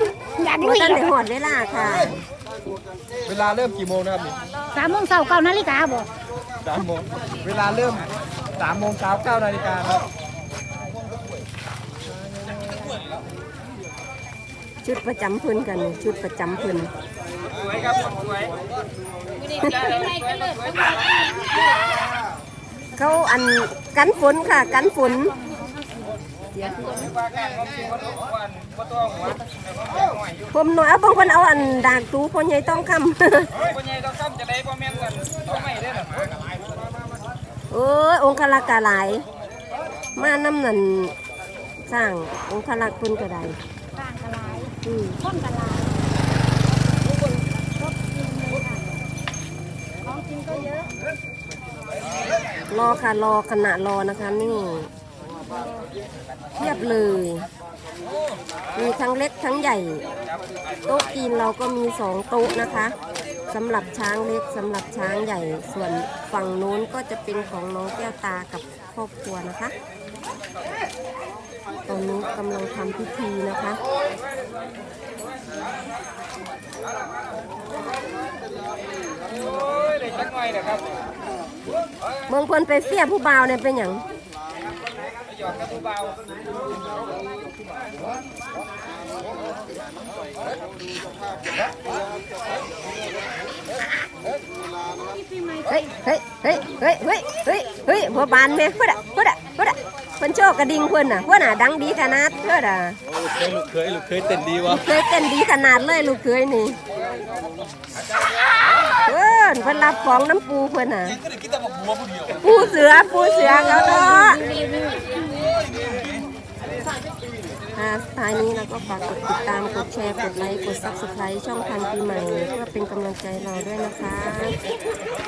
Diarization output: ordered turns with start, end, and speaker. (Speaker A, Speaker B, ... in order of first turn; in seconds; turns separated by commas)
Speaker A: 0.4-1.1, Speaker B: 0.6-2.2, Speaker C: 3.3-4.4, Speaker A: 4.7-6.1, Speaker C: 6.7-10.1, Speaker C: 12.4-13.0, Speaker B: 14.8-16.9, Speaker C: 17.6-18.5, Speaker A: 19.4-21.8, Speaker B: 19.6-19.9, Speaker B: 23.0-25.3, Speaker A: 25.5-26.1, Speaker B: 26.6-27.1, Speaker C: 28.6-29.2, Speaker B: 30.5-33.5, Speaker C: 33.9-34.8, Speaker C: 35.4-36.2, Speaker B: 37.7-39.2, Speaker B: 40.2-41.1, Speaker B: 41.9-43.6, Speaker A: 43.9-46.1, Speaker B: 44.8-45.2, Speaker A: 47.8-48.9, Speaker A: 50.0-50.9, Speaker B: 52.7-54.9, Speaker B: 56.6-57.5, Speaker B: 58.8-60.0, Speaker B: 60.9-63.0, Speaker B: 63.5-69.8, Speaker B: 71.9-73.8, Speaker C: 79.6-80.8, Speaker B: 82.3-84.0, Speaker A: 95.0-95.7, Speaker B: 95.7-103.0, Speaker C: 103.3-104.8, Speaker B: 104.6-106.8, Speaker B: 109.1-111.2, Speaker B: 112.4-114.5, Speaker A: 113.7-115.2, Speaker B: 117.8-124.6